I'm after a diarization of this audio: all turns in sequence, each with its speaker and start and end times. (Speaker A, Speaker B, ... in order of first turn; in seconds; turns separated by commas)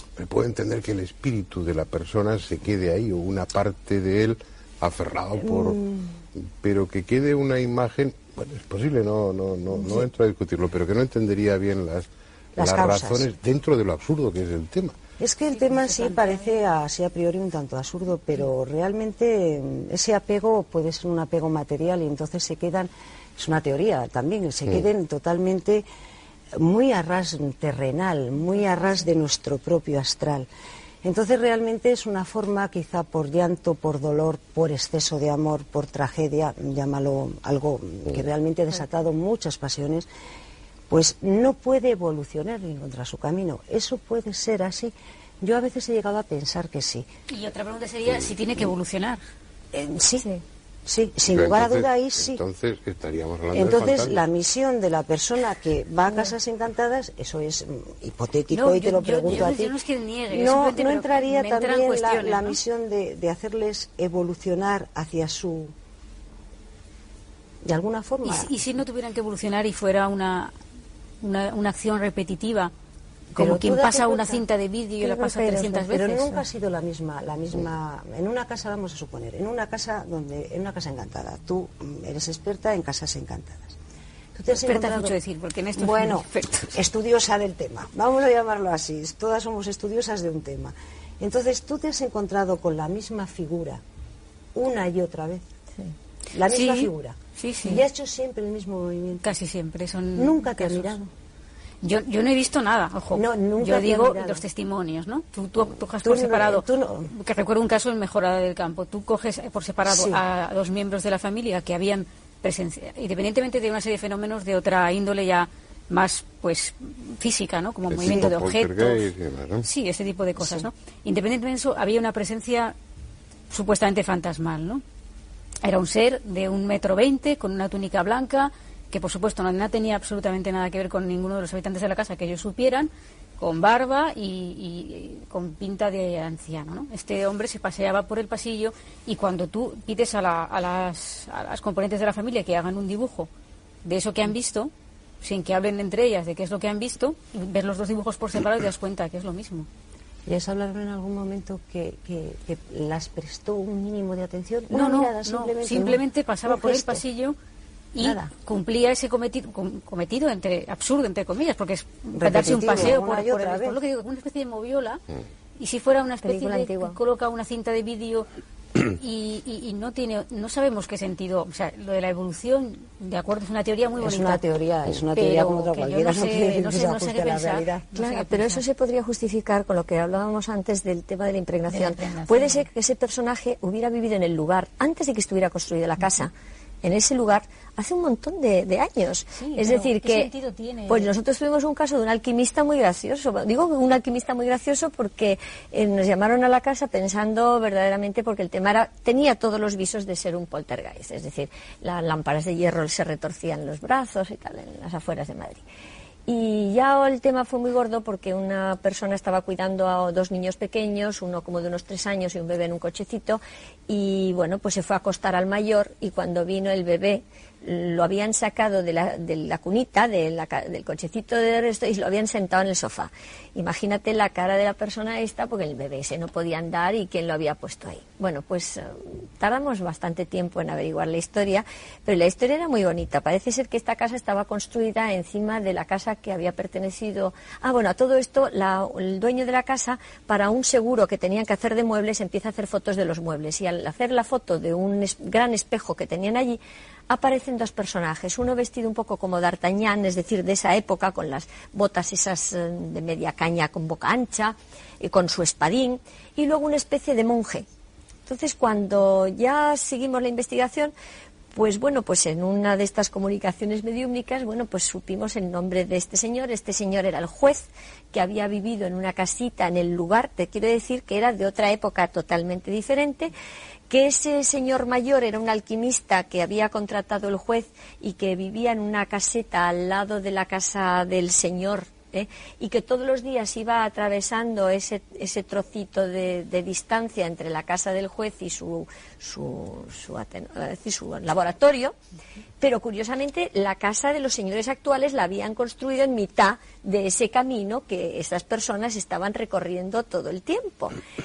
Speaker A: 0.2-5.8, Speaker B: 5.4-6.0, Speaker A: 6.3-15.0, Speaker B: 12.6-13.3, Speaker B: 15.2-25.8, Speaker C: 15.6-16.6, Speaker B: 26.5-30.5, Speaker B: 31.0-40.1, Speaker B: 40.9-47.0, Speaker C: 47.3-49.2, Speaker B: 49.7-50.3, Speaker B: 50.9-52.4, Speaker A: 51.3-54.2, Speaker B: 53.5-59.7, Speaker C: 58.5-62.6, Speaker B: 60.3-65.7, Speaker B: 67.6-68.6, Speaker C: 68.2-70.5, Speaker C: 71.2-72.7, Speaker B: 73.3-74.4, Speaker C: 73.3-76.4, Speaker B: 75.1-83.8, Speaker B: 84.3-85.2, Speaker C: 84.5-86.8, Speaker B: 85.8-93.8, Speaker B: 94.5-95.5, Speaker B: 96.3-99.2, Speaker C: 96.5-97.8, Speaker C: 99.2-101.0, Speaker B: 100.2-101.1, Speaker C: 101.8-119.1, Speaker B: 103.1-104.4, Speaker B: 106.0-107.1, Speaker B: 109.8-110.2, Speaker A: 117.9-119.7, Speaker B: 118.0-118.3, Speaker C: 119.6-122.7, Speaker B: 120.4-120.7, Speaker C: 123.5-124.8, Speaker C: 125.6-143.3, Speaker C: 143.8-149.7, Speaker B: 150.2-157.0, Speaker C: 154.7-157.3, Speaker C: 157.9-165.0, Speaker B: 158.0-158.3, Speaker B: 162.1-163.8, Speaker C: 165.6-168.3, Speaker D: 166.2-167.0, Speaker C: 168.8-174.4, Speaker B: 174.0-177.8, Speaker C: 175.1-178.6, Speaker D: 177.9-186.3, Speaker C: 181.7-182.7, Speaker D: 186.8-190.3, Speaker C: 189.3-191.1, Speaker D: 190.9-205.6, Speaker D: 206.3-257.6, Speaker D: 258.3-260.9, Speaker D: 261.5-273.3, Speaker D: 273.9-291.9, Speaker D: 292.6-301.0